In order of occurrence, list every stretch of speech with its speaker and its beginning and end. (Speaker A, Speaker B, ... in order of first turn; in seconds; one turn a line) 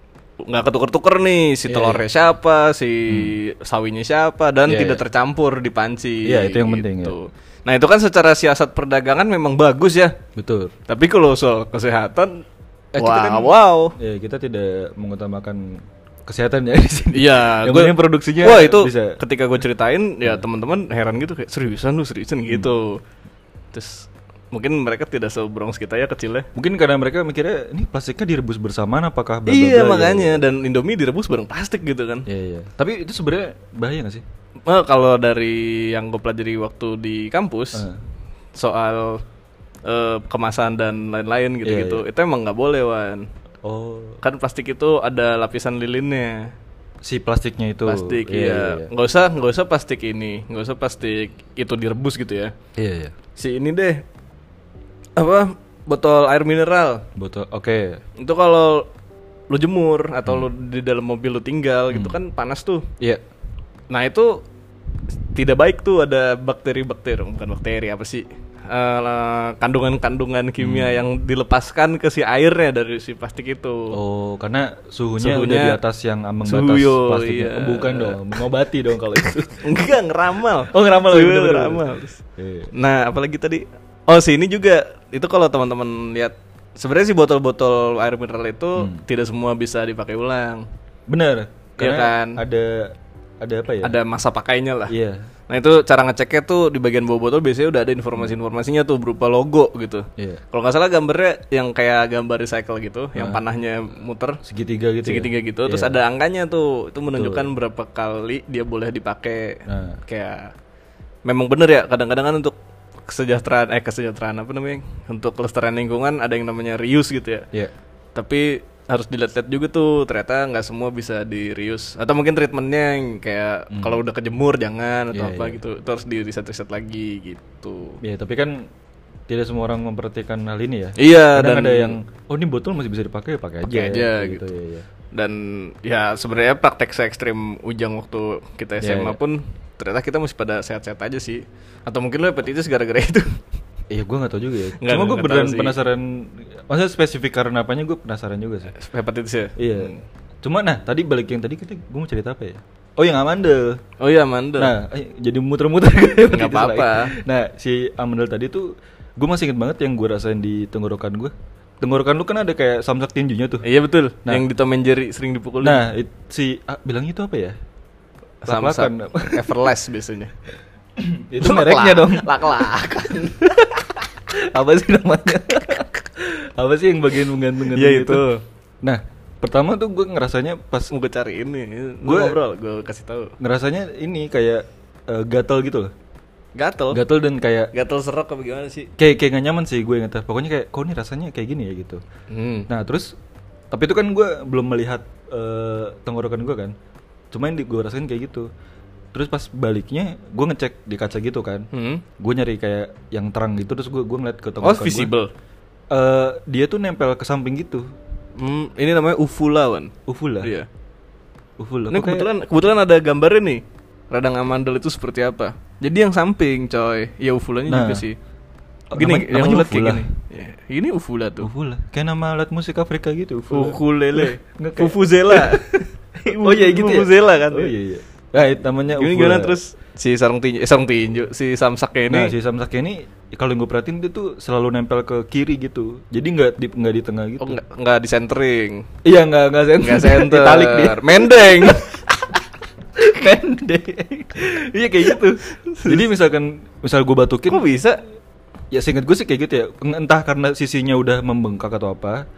Speaker A: 0.4-10.2
Speaker B: 1.7-2.0
Speaker B: 3.1-3.3
Speaker B: 4.7-5.0
Speaker B: 6.2-7.2
Speaker B: 10.3-10.7
Speaker A: 10.9-12.4
Speaker B: 12.9-19.2
Speaker A: 13.0-13.9
Speaker A: 17.1-23.0
Speaker A: 23.7-26.5
Speaker B: 26.5-30.4
Speaker A: 29.5-32.3
Speaker B: 32.3-34.2
Speaker A: 34.7-37.9
Speaker B: 37.7-38.0
Speaker A: 38.5-39.2
Speaker A: 39.8-43.2
Speaker B: 41.6-42.0
Speaker B: 43.6-44.2
Speaker A: 44.2-46.5
Speaker B: 47.0-48.9
Speaker A: 47.9-52.5
Speaker B: 52.8-53.1
Speaker A: 53.4-54.0
Speaker A: 55.2-57.0
Speaker B: 57.1-58.0
Speaker A: 58.2-58.9
Speaker A: 59.5-62.8
Speaker B: 61.9-62.1
Speaker A: 63.9-64.4
Speaker A: 65.3-74.0
Speaker B: 70.6-71.0
Speaker B: 73.9-79.6
Speaker A: 75.2-75.8
Speaker A: 76.4-78.3
Speaker A: 79.6-82.2
Speaker B: 80.7-82.7
Speaker A: 82.7-90.6
Speaker B: 88.8-89.0
Speaker B: 91.1-94.0
Speaker A: 91.8-92.4
Speaker A: 93.8-94.9
Speaker B: 94.9-95.3
Speaker A: 95.5-104.4
Speaker B: 103.2-103.4
Speaker B: 104.4-105.9
Speaker A: 105.0-110.5
Speaker B: 107.1-107.5
Speaker B: 109.7-110.0
Speaker A: 111.2-112.5
Speaker A: 113.1-117.4
Speaker A: 118.1-128.0
Speaker B: 123.7-124.0
Speaker B: 125.1-125.6
Speaker B: 128.0-128.7
Speaker B: 129.3-134.8
Speaker A: 131.0-132.0
Speaker A: 133.6-134.4
Speaker A: 135.1-143.3
Speaker B: 138.8-139.2
Speaker B: 143.9-148.7
Speaker A: 144.8-145.8
Speaker A: 148.7-150.0
Speaker B: 149.6-153.8
Speaker A: 154.0-154.7
Speaker B: 154.6-163.6
Speaker A: 156.3-157.1
Speaker A: 163.6-165.8
Speaker B: 165.6-167.5
Speaker B: 168.4-169.5
Speaker A: 168.4-170.3
Speaker B: 171.0-172.3
Speaker A: 171.4-173.6
Speaker B: 173.4-178.2
Speaker A: 177.7-178.4
Speaker B: 178.8-180.9
Speaker A: 180.9-183.3
Speaker B: 182.0-182.4
Speaker B: 183.4-185.9
Speaker A: 186.6-187.0
Speaker B: 186.9-187.7
Speaker A: 187.7-188.9
Speaker B: 189.0-192.0
Speaker A: 192.3-192.7
Speaker B: 192.7-193.1
Speaker B: 193.7-196.7
Speaker B: 197.3-198.5
Speaker B: 199.1-201.7
Speaker A: 201.7-202.0
Speaker B: 202.2-205.1
Speaker A: 204.6-205.3
Speaker B: 205.9-207.8
Speaker A: 208.4-210.7
Speaker B: 210.1-210.5
Speaker B: 211.6-212.3
Speaker A: 211.9-218.2
Speaker B: 217.7-218.0
Speaker B: 218.9-220.1
Speaker A: 218.9-221.5
Speaker B: 221.4-229.5
Speaker A: 223.5-225.6
Speaker A: 226.2-227.7
Speaker A: 228.9-232.3
Speaker B: 232.1-237.6
Speaker A: 237.4-238.8
Speaker B: 239.0-242.0
Speaker A: 239.8-241.9
Speaker B: 243.0-247.7
Speaker A: 245.7-246.0
Speaker A: 247.5-248.0
Speaker B: 248.7-252.2